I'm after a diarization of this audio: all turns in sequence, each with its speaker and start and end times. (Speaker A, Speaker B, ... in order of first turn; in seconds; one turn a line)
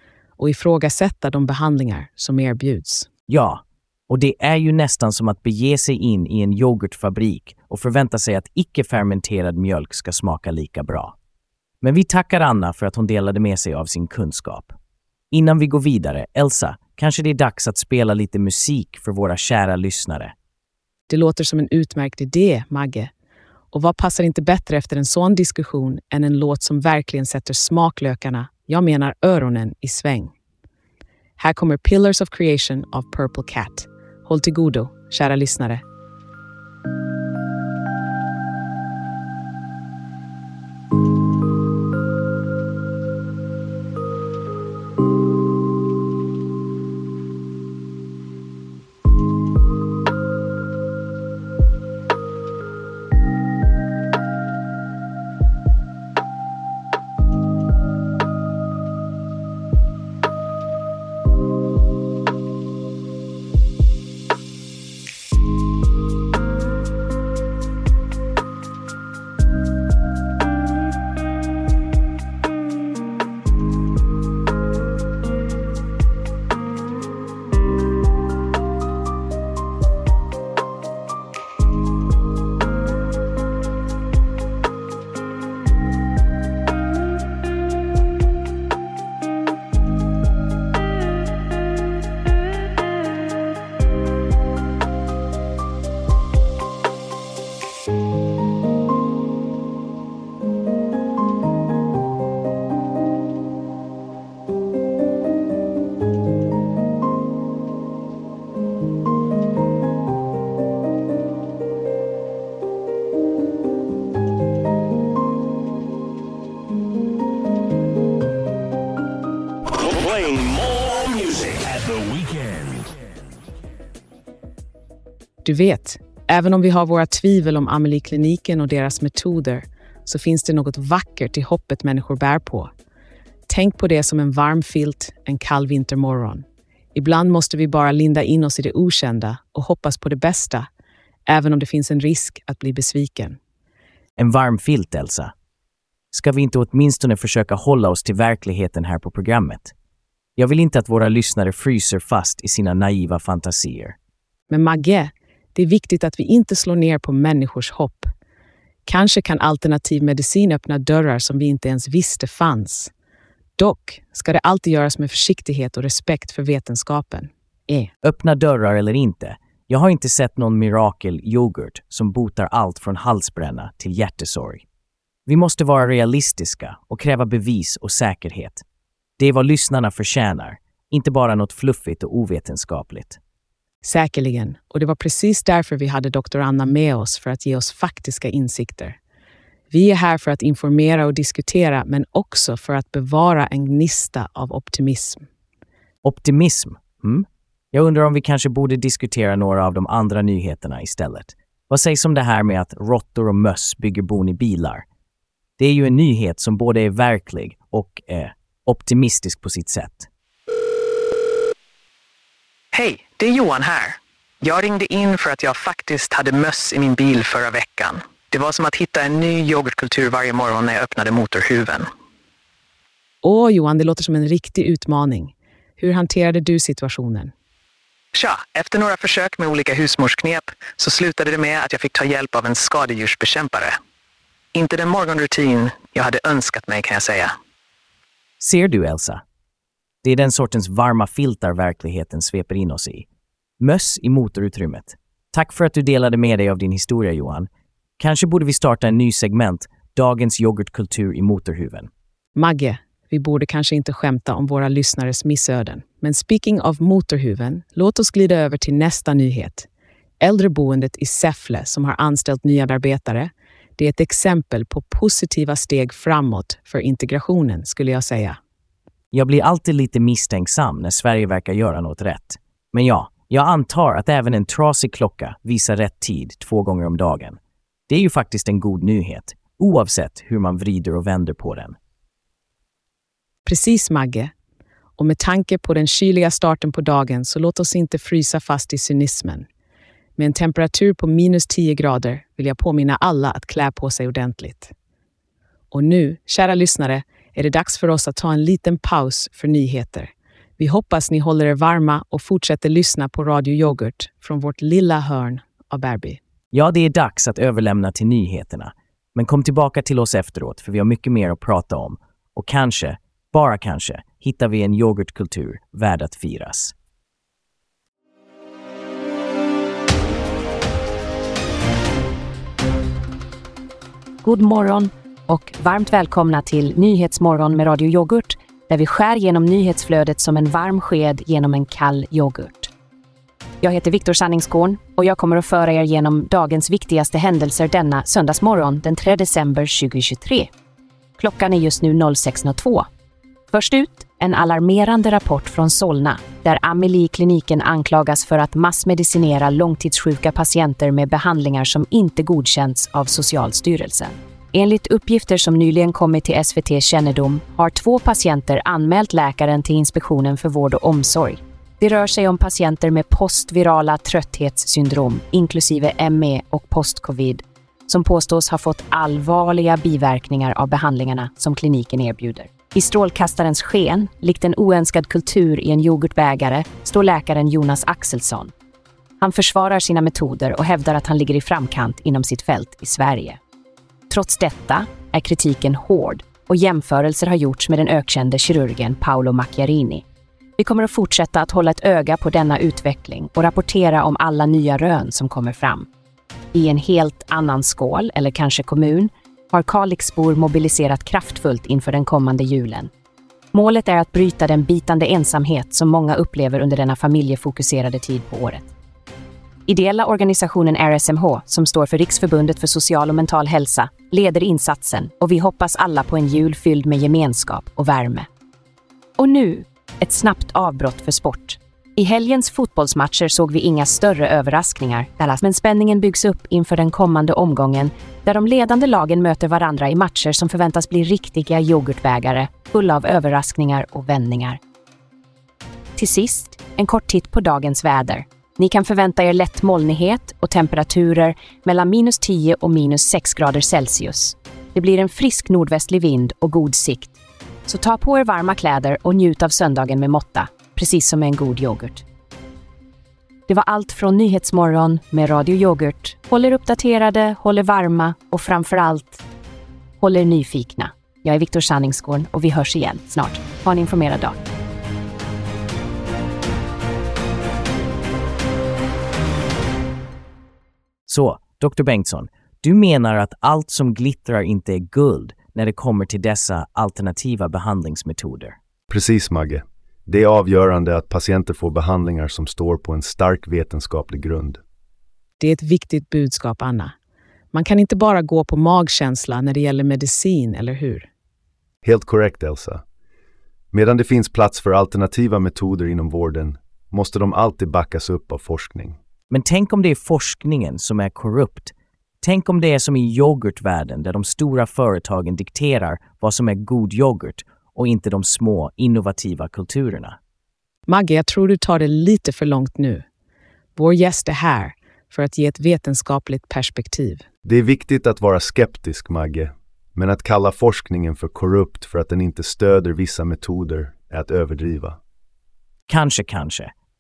Speaker A: 0.4-3.1
Speaker B: 3.3-11.2
Speaker B: 11.8-14.7
Speaker B: 15.3-20.3
Speaker A: 21.1-23.1
Speaker A: 23.7-30.3
Speaker A: 31.4-35.8
Speaker A: 125.4-132.7
Speaker A: 133.5-140.7
Speaker A: 141.3-143.4
Speaker B: 144.2-145.3
Speaker B: 146.1-149.7
Speaker B: 150.4-154.0
Speaker A: 154.5-158.1
Speaker A: 158.9-162.9
Speaker A: 163.6-167.9
Speaker B: 168.0-174.7
Speaker B: 175.3-178.6
Speaker B: 179.2-183.2
Speaker A: 183.8-189.0
Speaker A: 189.7-195.3
Speaker B: 196.0-204.8
Speaker B: 205.6-210.1
Speaker C: 212.7-221.9
Speaker A: 223.2-227.3
Speaker C: 228.1-233.8
Speaker C: 234.5-237.3
Speaker B: 238.4-239.2
Speaker B: 240.0-243.1
Speaker B: 243.6-251.9
Speaker A: 252.4-259.7
Speaker A: 260.2-268.4
Speaker B: 269.1-277.4
Speaker B: 277.9-281.8
Speaker A: 283.5-284.3
Speaker A: 285.0-289.5
Speaker A: 290.2-294.7
Speaker A: 295.7-306.2
Speaker B: 306.5-316.7
Speaker D: 324.2-332.7
Speaker D: 333.6-340.5
Speaker D: 341.2-342.9
Speaker D: 343.5-378.5
Speaker D: 379.2-383.4
Speaker D: 384.1-390.1
Speaker D: 390.6-395.9
Speaker D: 396.5-402.9
Speaker D: 403.5-408.7
Speaker D: 409.7-418.3
Speaker D: 419.2-434.6
Speaker D: 436.0-447.1
Speaker D: 447.7-452.0
Speaker D: 453.5-459.2
Speaker D: 460.0-464.4
Speaker B: 471.1-478.6
Speaker E: 478.9-484.6
Speaker A: 485.4-486.9
Speaker A: 487.5-491.1
Speaker E: 491.8-492.8
Speaker E: 493.7-499.0
Speaker B: 499.3-510.2
Speaker A: 510.9-513.0
Speaker A: 513.8-517.2
Speaker E: 517.5-525.0
Speaker B: 525.9-526.7